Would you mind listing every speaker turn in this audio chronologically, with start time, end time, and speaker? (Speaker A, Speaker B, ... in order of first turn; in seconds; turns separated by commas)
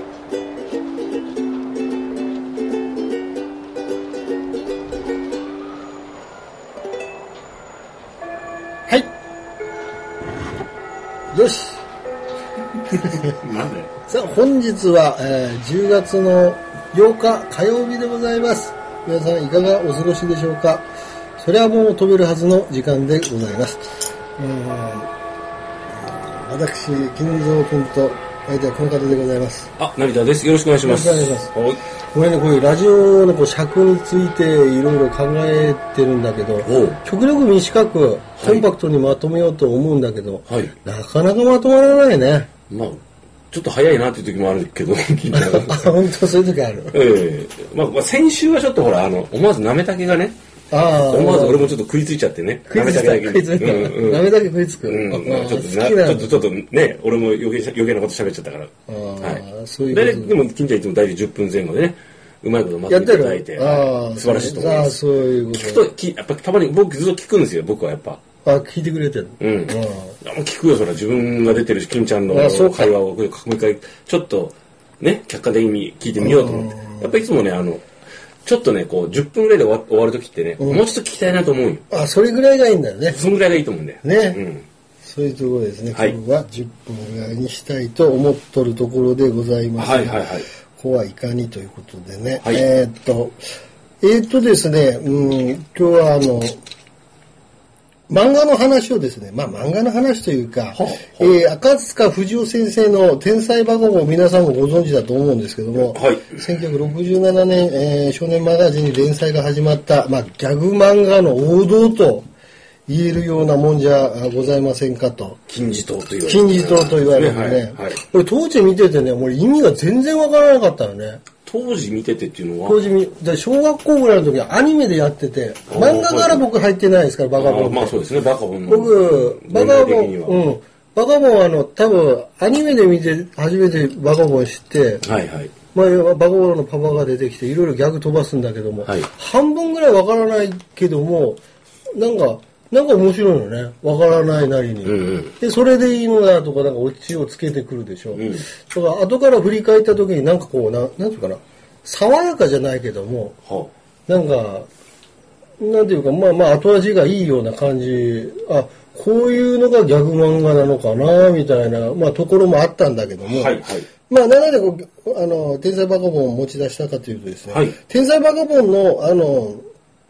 Speaker A: 11.3-11.8, Speaker B: 12.9-13.9, Speaker A: 14.1-20.9, Speaker A: 21.4-25.1, Speaker A: 26.0-29.7, Speaker B: 29.8-31.8, Speaker A: 30.8-31.5, Speaker A: 32.1-42.5, Speaker B: 36.6-37.0, Speaker B: 38.4-38.7, Speaker B: 40.5-40.7, Speaker B: 42.7-46.0, Speaker A: 45.3-47.0, Speaker B: 46.9-50.4, Speaker A: 50.7-51.8, Speaker B: 51.0-54.2, Speaker A: 52.7-56.5, Speaker B: 54.8-68.2, Speaker A: 58.9-60.4, Speaker A: 62.9-65.9, Speaker A: 68.4-70.1, Speaker B: 69.4-77.8, Speaker A: 72.3-72.9, Speaker A: 76.2-77.1, Speaker B: 78.5-81.8, Speaker A: 80.6-80.8, Speaker A: 81.9-83.2, Speaker B: 83.1-84.7, Speaker A: 84.0-84.4, Speaker A: 85.0-93.4, Speaker B: 89.8-90.5, Speaker A: 94.0-96.6, Speaker A: 98.1-112.2, Speaker B: 100.7-101.3, Speaker B: 105.8-106.7, Speaker A: 112.9-115.4, Speaker B: 115.5-118.0, Speaker A: 116.2-121.2, Speaker B: 121.4-122.9, Speaker A: 122.6-128.0, Speaker B: 125.7-126.5, Speaker B: 127.4-130.5, Speaker A: 128.7-135.1, Speaker B: 135.0-135.5, Speaker A: 135.7-141.4, Speaker A: 141.9-153.4, Speaker B: 144.8-145.3, Speaker B: 148.1-148.4, Speaker B: 153.4-153.7, Speaker A: 154.1-154.7, Speaker A: 155.6-169.6, Speaker B: 163.2-163.9, Speaker B: 167.5-167.8